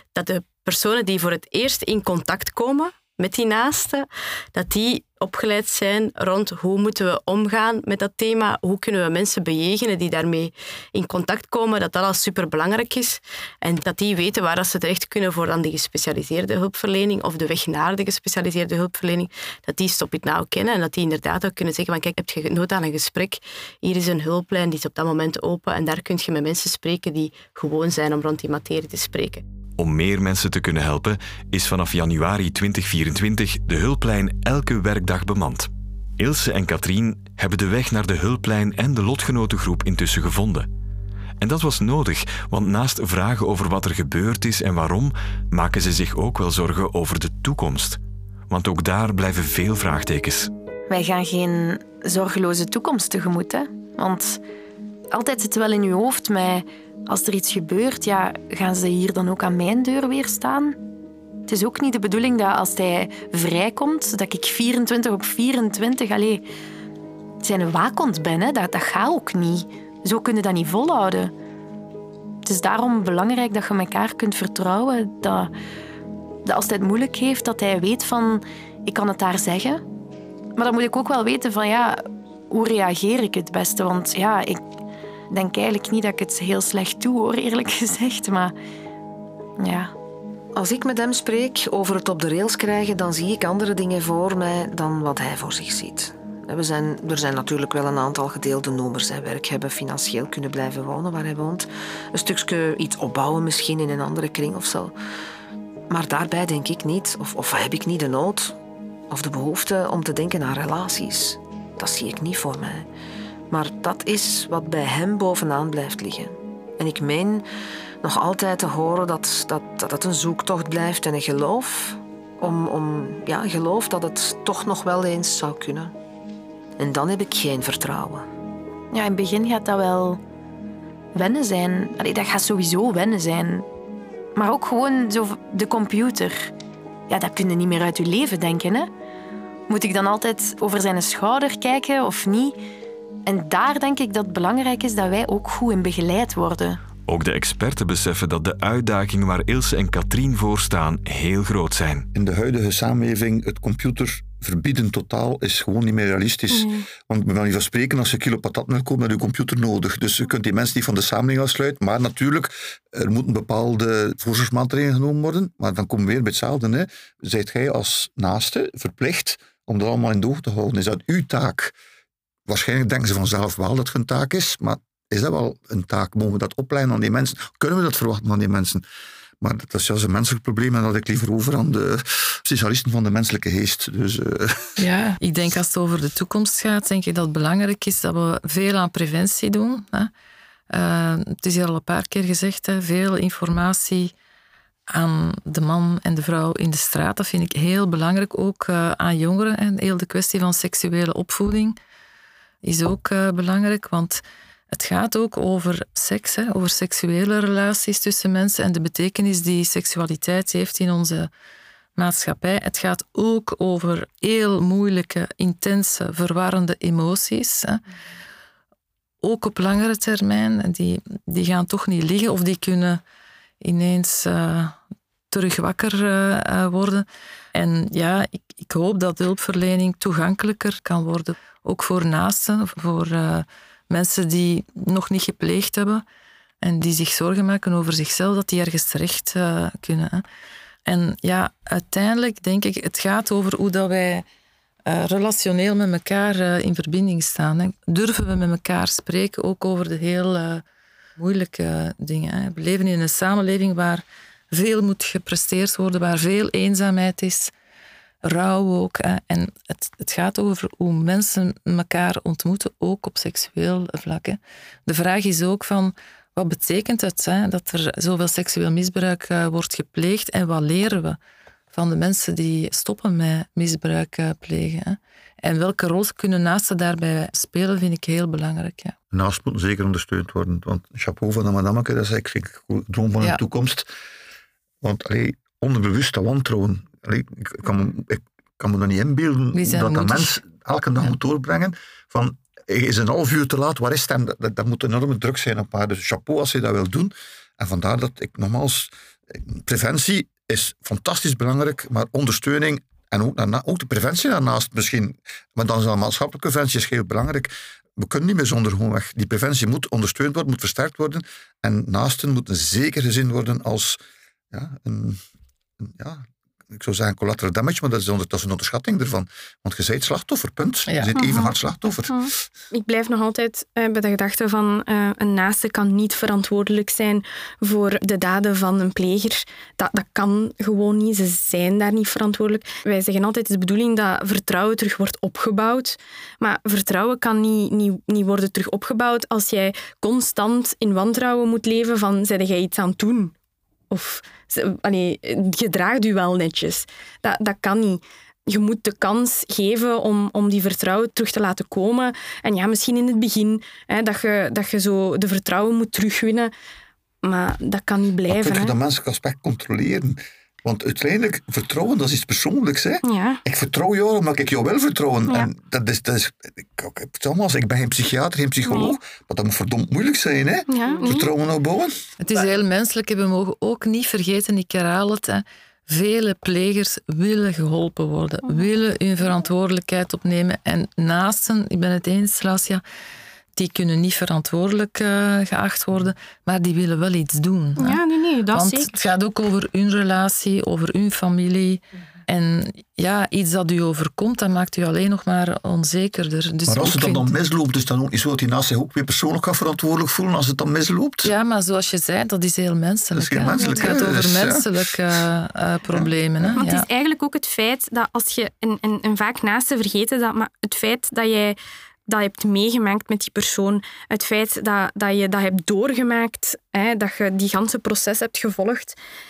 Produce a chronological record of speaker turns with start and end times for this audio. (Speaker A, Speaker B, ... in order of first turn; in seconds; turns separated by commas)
Speaker A: 0.1-29.4, Speaker B: 29.8-40.7, Speaker B: 41.4-50.5, Speaker C: 50.9-54.4, Speaker C: 55.1-60.8, Speaker C: 61.5-66.4, Speaker C: 67.4-71.3, Speaker C: 72.5-75.5, Speaker C: 76.5-79.8, Speaker C: 80.6-84.6, Speaker C: 85.3-88.5, Speaker C: 89.6-89.9, Speaker D: 90.5-105.0, Speaker D: 105.9-108.6, Speaker D: 109.1-112.9, Speaker D: 113.5-117.5, Speaker D: 118.0-125.9, Speaker D: 126.8-128.3, Speaker C: 128.9-130.2, Speaker C: 131.2-133.7, Speaker C: 134.4-136.5, Speaker C: 137.1-138.9, Speaker C: 139.7-142.6, Speaker C: 143.3-146.8, Speaker B: 147.1-152.1, Speaker E: 152.1-171.7, Speaker F: 156.5-156.8, Speaker E: 172.5-178.8, Speaker E: 179.4-184.8, Speaker G: 184.8-190.1, Speaker G: 190.7-194.1, Speaker G: 194.9-201.8, Speaker G: 202.6-211.3, Speaker G: 212.0-217.8, Speaker G: 219.2-223.0, Speaker G: 223.6-224.8, Speaker G: 225.3-236.0, Speaker G: 236.6-240.2, Speaker G: 240.9-244.2, Speaker G: 244.9-250.6, Speaker G: 251.2-257.5, Speaker G: 258.2-271.2, Speaker G: 271.7-278.9, Speaker E: 279.1-283.9, Speaker E: 284.8-314.0, Speaker G: 289.5-290.4, Speaker E: 314.5-315.2, Speaker E: 315.8-322.3, Speaker F: 321.1-321.5, Speaker F: 322.1-343.3, Speaker F: 343.9-356.5, Speaker F: 357.2-358.8, Speaker E: 358.3-372.0, Speaker F: 363.0-363.4, Speaker F: 368.7-368.9, Speaker F: 370.7-371.3, Speaker G: 372.2-382.8, Speaker G: 383.6-388.0, Speaker F: 387.8-389.0, Speaker G: 388.5-397.3, Speaker E: 396.7-401.3, Speaker G: 401.2-406.9, Speaker E: 403.1-404.8, Speaker F: 403.6-403.9, Speaker F: 406.6-411.6, Speaker F: 412.1-419.0